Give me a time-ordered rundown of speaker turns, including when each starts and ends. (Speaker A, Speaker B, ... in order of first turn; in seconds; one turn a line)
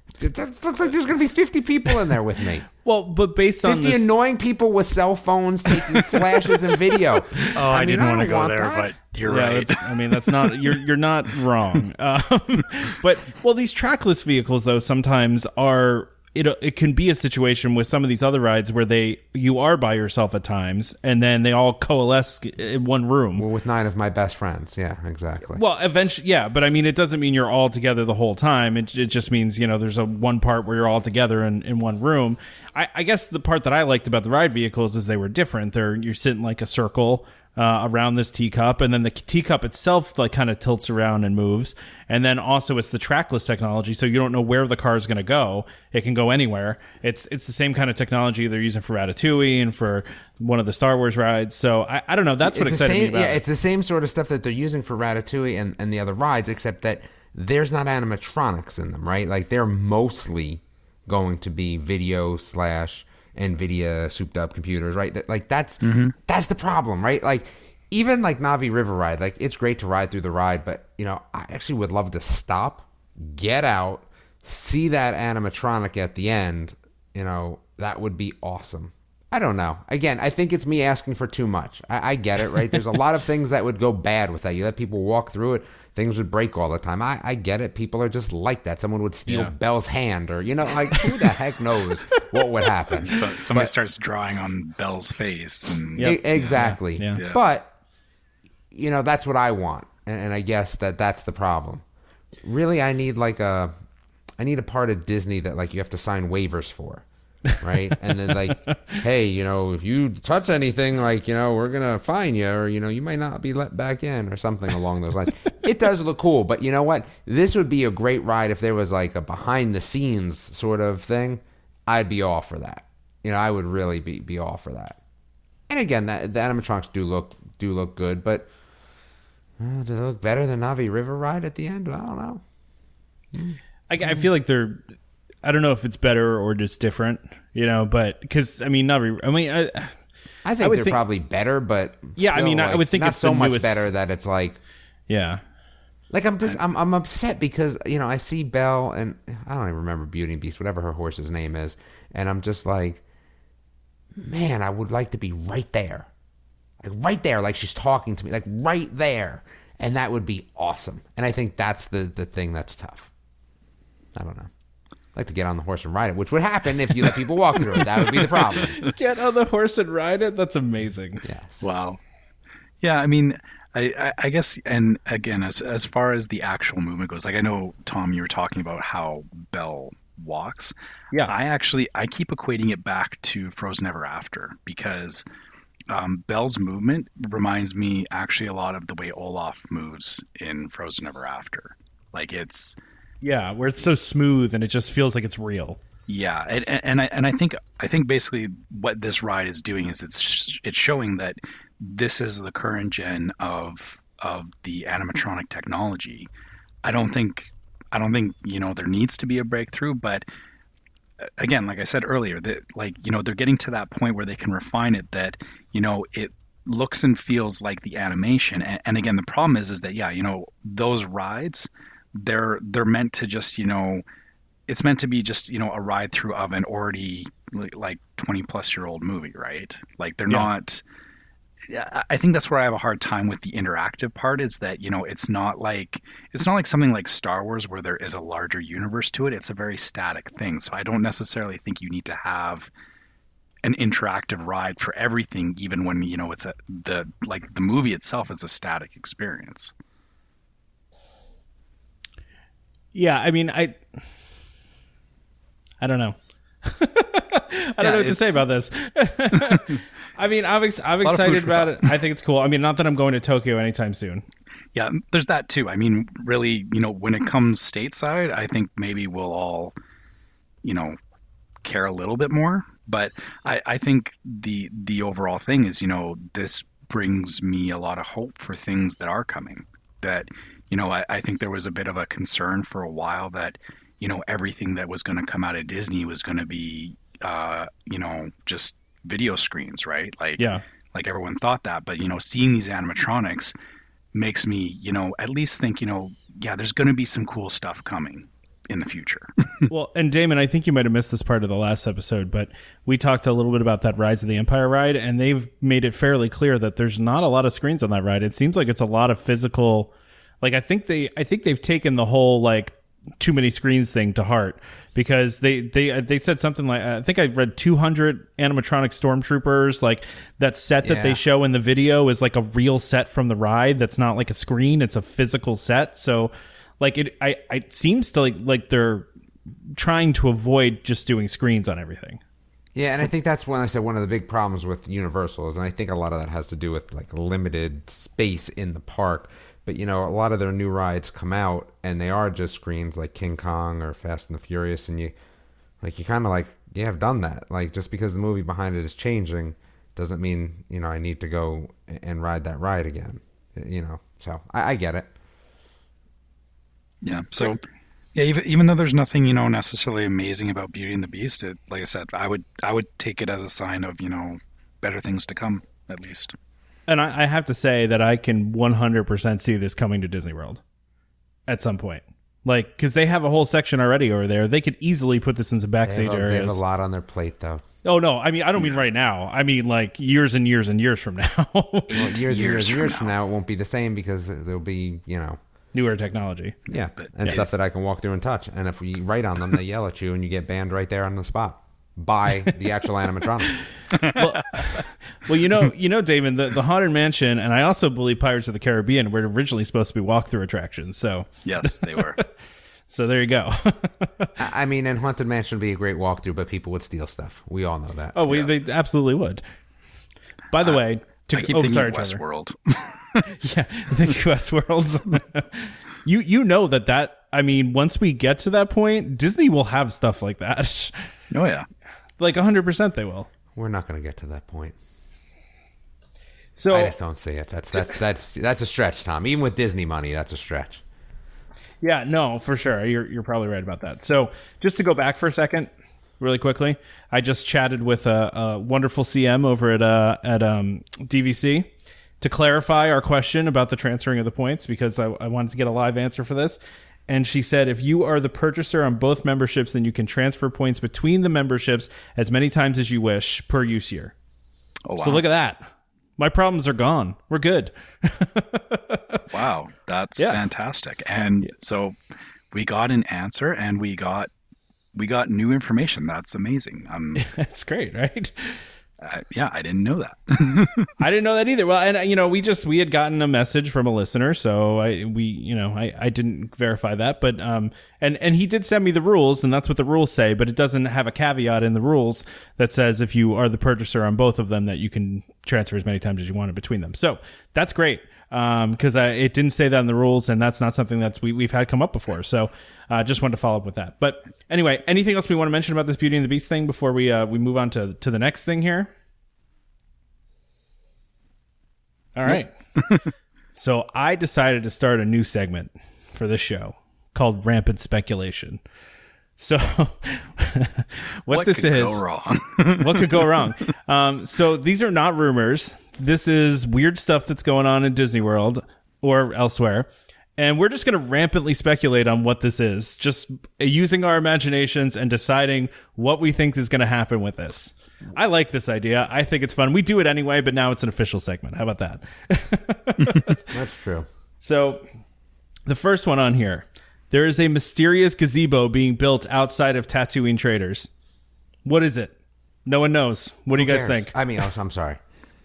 Speaker A: 0.2-2.7
Speaker B: 2.8-4.1
Speaker A: 3.6-8.9
Speaker C: 7.5-10.8
Speaker B: 9.2-23.4
Speaker A: 23.4-25.6
Speaker B: 25.5-53.4
Speaker A: 52.4-93.7
Speaker C: 65.8-66.1
Speaker C: 93.0-96.6
Speaker B: 96.0-97.2
Speaker A: 96.0-97.7
Speaker A: 98.7-101.8
Speaker A: 102.4-103.7
Speaker A: 104.4-107.0
Speaker A: 107.6-125.0
Speaker B: 108.7-108.9
Speaker A: 125.7-128.5
Speaker A: 129.6-132.4
Speaker A: 133.3-134.3
Speaker B: 133.9-134.8
Speaker B: 135.4-139.9
Speaker A: 140.4-144.6
Speaker B: 140.6-141.0
Speaker B: 142.2-143.9
Speaker B: 145.1-145.4
Speaker A: 146.1-153.0
Speaker A: 154.2-156.1
Speaker A: 156.8-163.1
Speaker A: 164.2-164.5
Speaker A: 165.2-168.8
Speaker B: 168.6-171.2
Speaker A: 171.2-171.6
Speaker C: 171.6-172.0
Speaker C: 172.8-180.7
Speaker C: 181.3-185.2
Speaker C: 185.9-192.8
Speaker B: 193.2-195.8
Speaker C: 196.1-206.3
Speaker C: 206.8-210.2
Speaker C: 211.2-224.0
Speaker C: 224.7-230.8
Speaker C: 231.7-242.7
Speaker C: 243.6-249.7
Speaker B: 252.9-253.8
Speaker B: 255.8-264.2
Speaker C: 257.8-258.4
Speaker C: 259.4-259.7
Speaker C: 261.0-262.0
Speaker C: 264.8-269.7
Speaker C: 270.6-271.0
Speaker C: 271.6-293.5
Speaker B: 290.4-290.6
Speaker C: 294.1-299.7
Speaker B: 299.7-309.9
Speaker B: 310.4-329.1
Speaker A: 320.8-321.2
Speaker B: 329.8-332.2
Speaker A: 332.8-345.1
Speaker A: 345.8-355.1
Speaker C: 357.0-357.6
Speaker C: 358.1-366.4
Speaker B: 366.9-370.6
Speaker B: 371.5-376.6
Speaker A: 375.8-377.6
Speaker B: 377.8-382.3
Speaker C: 381.9-383.1
Speaker A: 381.9-385.4
Speaker B: 385.7-386.6
Speaker A: 386.7-393.6
Speaker C: 387.0-387.5
Speaker C: 393.9-394.7
Speaker B: 394.1-402.3
Speaker C: 401.4-402.2
Speaker B: 402.9-404.3
Speaker A: 404.4-408.2
Speaker B: 408.1-409.4
Speaker B: 410.5-412.2
Speaker C: 410.6-413.3
Speaker B: 413.3-421.1
Speaker C: 421.3-421.7
Speaker B: 422.2-423.3
Speaker A: 423.6-424.8
Speaker B: 426.6-426.9
Speaker A: 426.7-430.8
Speaker B: 431.8-441.7
Speaker B: 442.2-454.1
Speaker C: 454.9-455.2
Speaker B: 455.0-459.2
Speaker C: 459.3-462.0
Speaker C: 462.5-464.3
Speaker C: 464.9-467.2
Speaker B: 467.2-468.6
Speaker C: 469.0-470.9
Speaker B: 471.0-498.9
Speaker B: 502.1-502.5
Speaker C: 502.8-503.0
Speaker B: 503.5-508.6
Speaker B: 509.4-512.0
Speaker C: 511.3-513.5
Speaker B: 512.8-533.4
Speaker A: 533.5-534.1
Speaker B: 534.4-534.8
Speaker B: 535.7-540.9
Speaker B: 541.6-542.1
Speaker B: 542.7-544.1
Speaker A: 543.5-545.0